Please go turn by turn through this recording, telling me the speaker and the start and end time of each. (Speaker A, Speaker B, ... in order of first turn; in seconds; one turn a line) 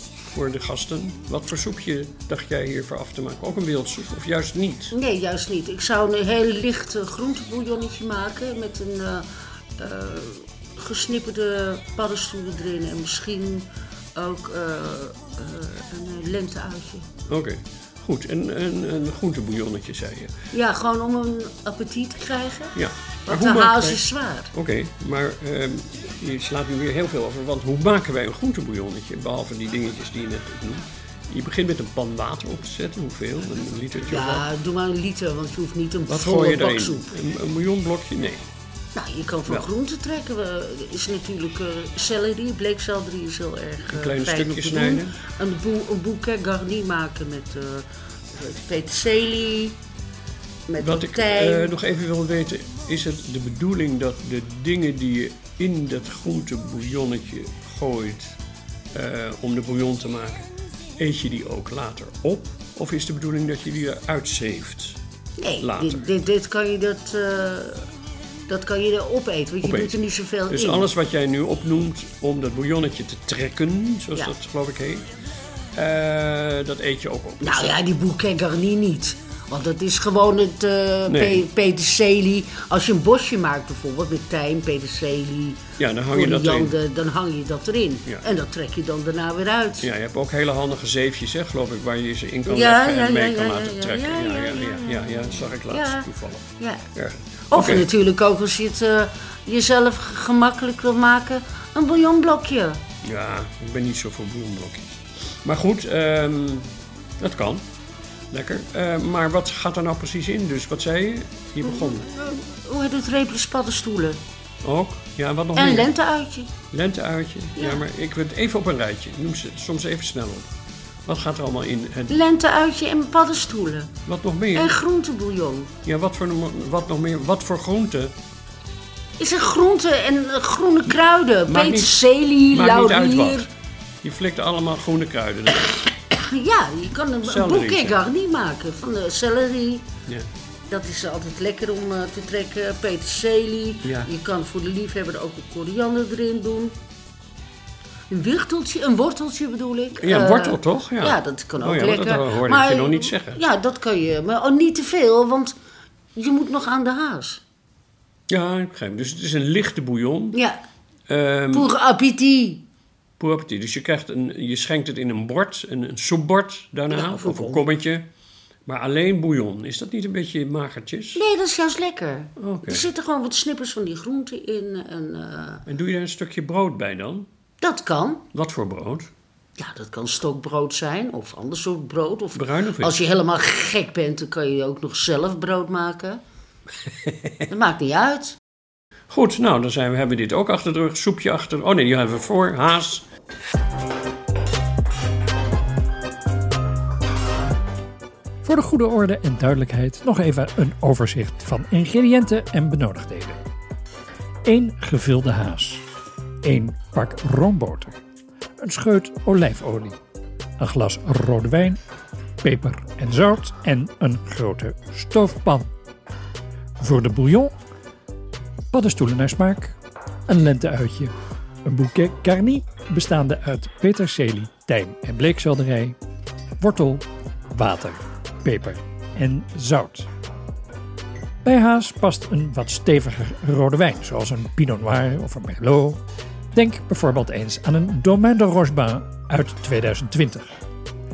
Speaker A: 0.3-4.9
Speaker B: 4.9-17.1
Speaker A: 17.3-20.3
Speaker B: 20.5-22.8
Speaker A: 22.8-34.4
Speaker B: 23.3-24.5
Speaker B: 34.0-37.1
Speaker A: 36.1-38.5
Speaker B: 38.9-49.8
Speaker A: 43.9-45.1
Speaker B: 50.7-51.7
Speaker A: 50.8-58.4
Speaker A: 58.9-65.0
Speaker B: 65.4-67.9
Speaker A: 65.6-66.0
Speaker B: 68.5-70.9
Speaker A: 69.6-75.1
Speaker A: 75.7-77.7
Speaker B: 77.4-89.9
Speaker A: 81.1-81.5
Speaker A: 85.8-86.8
Speaker A: 89.8-97.9
Speaker B: 92.5-96.1
Speaker B: 96.6-96.8
Speaker B: 97.5-102.8
Speaker A: 103.0-106.7
Speaker A: 107.2-107.6
Speaker A: 108.3-112.0
Speaker B: 111.6-114.2
Speaker A: 114.6-115.9
Speaker B: 115.5-116.5
Speaker A: 116.7-120.5
Speaker B: 117.6-117.8
Speaker A: 121.0-122.2
Speaker B: 122.1-123.9
Speaker A: 124.0-124.7
Speaker B: 124.5-125.7
Speaker A: 125.8-128.1
Speaker B: 129.2-133.5
Speaker A: 131.5-133.5
Speaker A: 134.0-135.8
Speaker B: 136.1-139.9
Speaker A: 137.2-138.0
Speaker B: 140.7-146.7
Speaker A: 143.8-144.1
Speaker B: 148.1-155.6
Speaker A: 150.0-153.4
Speaker B: 156.2-157.4
Speaker A: 158.3-160.4
Speaker B: 160.3-160.6
Speaker A: 161.1-161.7
Speaker B: 161.5-162.6
Speaker A: 163.2-168.0
Speaker B: 166.9-167.6
Speaker A: 168.7-171.2
Speaker B: 171.2-175.6
Speaker A: 172.4-172.8
Speaker A: 175.7-177.3
Speaker B: 177.6-178.2
Speaker A: 178.3-179.1
Speaker B: 179.6-186.2
Speaker A: 182.3-183.0
Speaker B: 187.5-188.4
Speaker A: 189.1-193.0
Speaker C: 198.4-203.4
Speaker C: 204.4-205.8
Speaker C: 206.4-208.0
Speaker C: 208.6-210.0
Speaker C: 210.6-211.8
Speaker C: 212.4-215.7
Speaker C: 216.8-217.5
Speaker C: 218.7-221.1
Speaker C: 221.6-226.0
Speaker C: 226.6-230.1
Speaker C: 231.4-236.0
Speaker C: 236.5-240.6